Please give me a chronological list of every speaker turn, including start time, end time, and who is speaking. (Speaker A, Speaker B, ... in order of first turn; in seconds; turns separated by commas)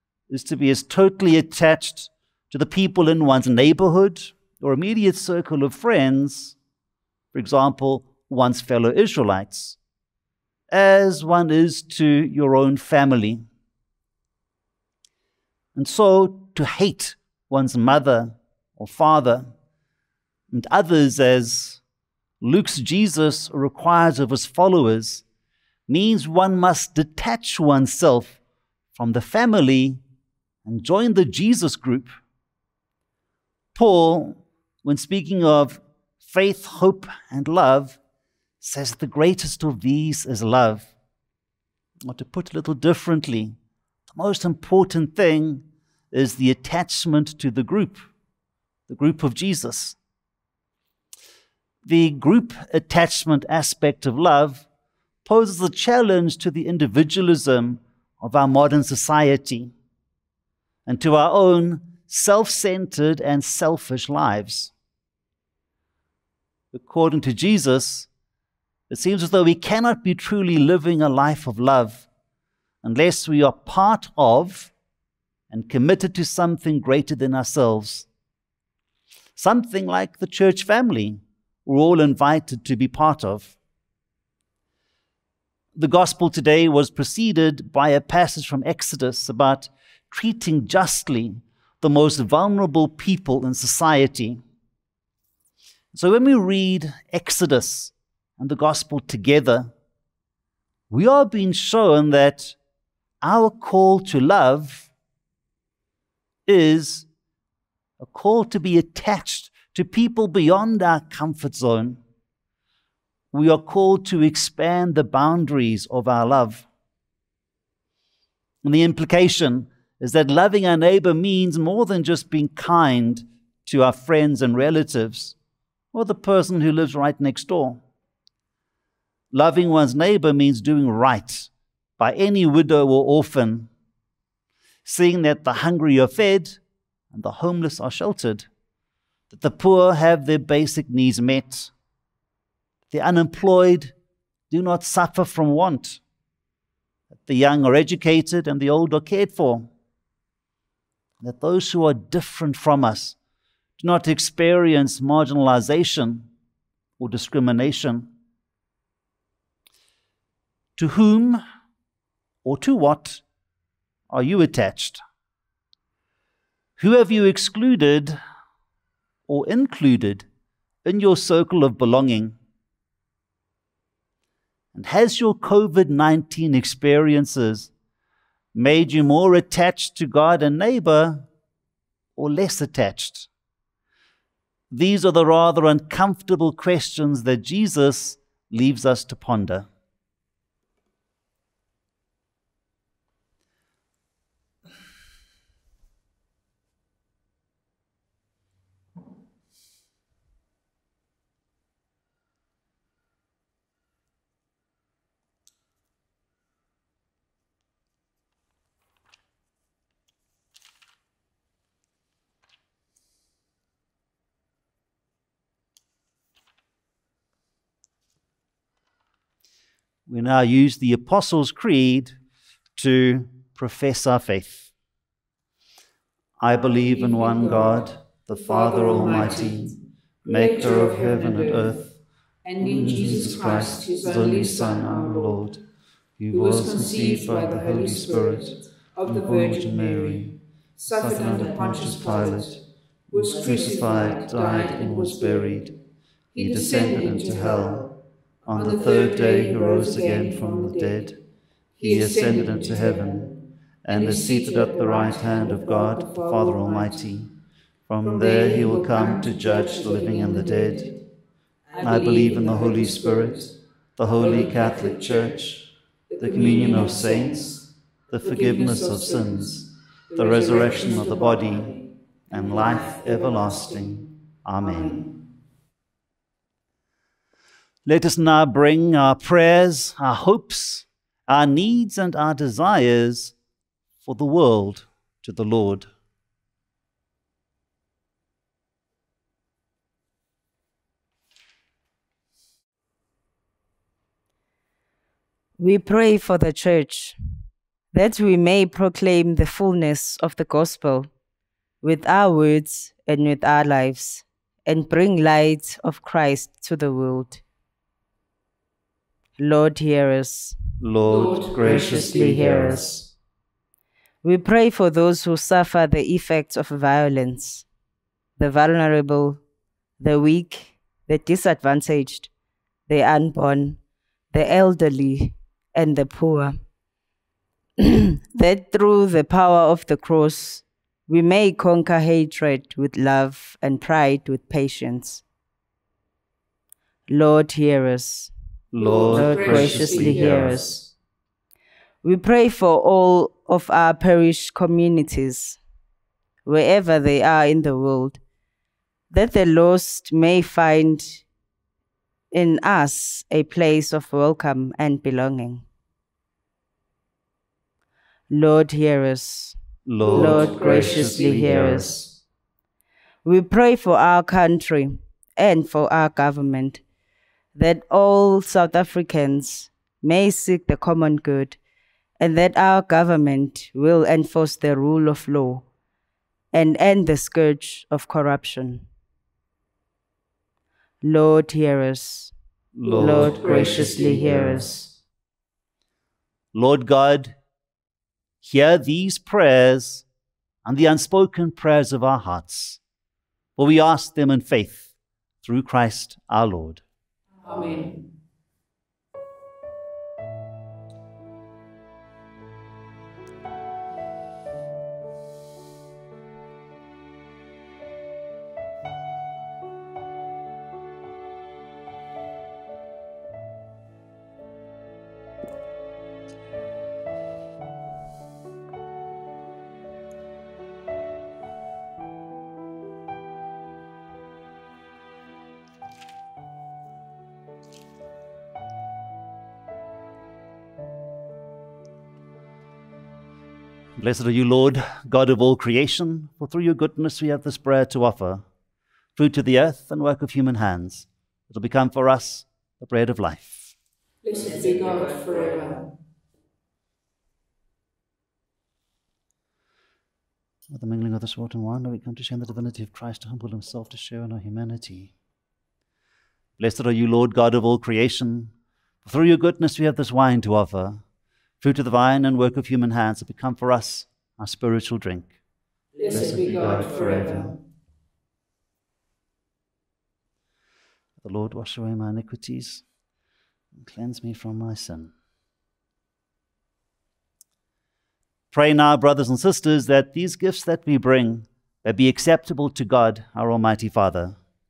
Speaker A: 0.3-6.6, Speaker A: 7.3-9.8, Speaker A: 10.7-13.4, Speaker A: 15.8-19.5, Speaker A: 20.5-21.8, Speaker A: 22.4-25.2, Speaker A: 25.9-28.4, Speaker A: 28.9-30.0, Speaker A: 30.6-32.1, Speaker A: 33.8-38.0, Speaker A: 38.6-40.9, Speaker A: 42.1-43.6, Speaker A: 44.1-48.1, Speaker A: 48.9-50.0, Speaker A: 51.9-54.6, Speaker A: 55.2-59.7, Speaker A: 60.9-64.7, Speaker A: 66.7-68.1, Speaker A: 68.9-72.1, Speaker A: 72.8-74.7, Speaker A: 75.5-78.1, Speaker A: 79.4-83.5, Speaker A: 85.8-94.4, Speaker A: 95.9-99.7, Speaker A: 100.9-102.6, Speaker A: 103.2-104.9, Speaker A: 106.5-107.1, Speaker A: 108.0-112.0, Speaker A: 113.3-116.7, Speaker A: 118.6-125.4, Speaker A: 125.9-127.8, Speaker A: 129.3-133.7, Speaker A: 134.8-136.6, Speaker A: 137.1-138.5, Speaker A: 139.3-141.7, Speaker A: 142.9-143.9, Speaker A: 144.5-146.0, Speaker A: 147.1-149.7, Speaker A: 151.2-153.2, Speaker A: 153.8-156.3, Speaker A: 157.0-158.1, Speaker A: 160.8-161.4, Speaker A: 162.4-163.2, Speaker A: 164.1-165.0, Speaker A: 166.8-168.2, Speaker A: 169.3-170.3, Speaker A: 170.8-172.4, Speaker A: 174.7-177.7, Speaker A: 178.5-181.3, Speaker A: 182.2-183.3, Speaker A: 184.7-189.7, Speaker A: 220.1-222.2, Speaker A: 222.8-224.7, Speaker A: 226.4-231.9, Speaker B: 226.9-231.8, Speaker B: 232.4-235.4, Speaker A: 232.6-235.6, Speaker A: 236.2-240.4, Speaker B: 236.3-242.6, Speaker A: 240.9-245.8, Speaker B: 243.1-245.6, Speaker B: 246.3-247.9, Speaker A: 246.4-247.9, Speaker A: 248.5-251.2, Speaker B: 248.5-251.1, Speaker B: 251.8-253.3, Speaker A: 251.8-253.3, Speaker A: 253.8-257.3, Speaker B: 253.9-257.0, Speaker A: 257.9-260.9, Speaker B: 258.0-261.0, Speaker B: 261.7-263.5, Speaker A: 261.8-265.7, Speaker B: 264.1-265.4, Speaker B: 266.1-267.6, Speaker A: 266.2-267.5, Speaker A: 268.1-271.8, Speaker B: 268.2-274.1, Speaker A: 272.3-275.1, Speaker B: 274.6-275.1, Speaker A: 277.9-283.4, Speaker A: 284.0-285.9, Speaker C: 295.6-297.2, Speaker C: 297.9-301.1, Speaker C: 301.8-307.4, Speaker C: 309.4-310.6, Speaker A: 310.8-313.0, Speaker B: 311.1-312.8, Speaker C: 311.6-313.0, Speaker C: 314.2-317.6, Speaker C: 318.4-319.4, Speaker C: 320.0-322.3, Speaker C: 322.9-323.8, Speaker C: 324.3-326.6, Speaker C: 327.8-335.2, Speaker C: 337.1-338.3, Speaker A: 338.7-340.6, Speaker B: 338.8-340.9, Speaker C: 339.1-340.8, Speaker C: 342.0-345.6, Speaker C: 346.4-348.2, Speaker C: 349.1-351.2, Speaker C: 352.3-355.6, Speaker C: 358.3-362.0, Speaker A: 359.9-362.1, Speaker B: 360.0-361.8, Speaker C: 363.2-366.8, Speaker C: 367.6-371.6, Speaker C: 372.2-375.6, Speaker C: 376.5-378.9, Speaker C: 381.0-382.3, Speaker A: 382.8-384.7, Speaker B: 382.8-384.6, Speaker C: 382.9-384.9, Speaker A: 386.5-387.4, Speaker A: 388.4-390.1, Speaker A: 390.6-392.8, Speaker A: 393.6-394.9, Speaker A: 395.4-396.8, Speaker B: 397.4-398.0, Speaker A: 434.0-438.4, Speaker A: 439.1-443.8, Speaker B: 444.2-445.9, Speaker A: 450.7-455.1, Speaker A: 456.6-458.5, Speaker A: 459.0-461.0, Speaker A: 461.6-465.4, Speaker B: 465.9-467.6, Speaker A: 466.1-467.6, Speaker A: 471.2-472.8, Speaker A: 473.8-475.1, Speaker A: 478.5-484.4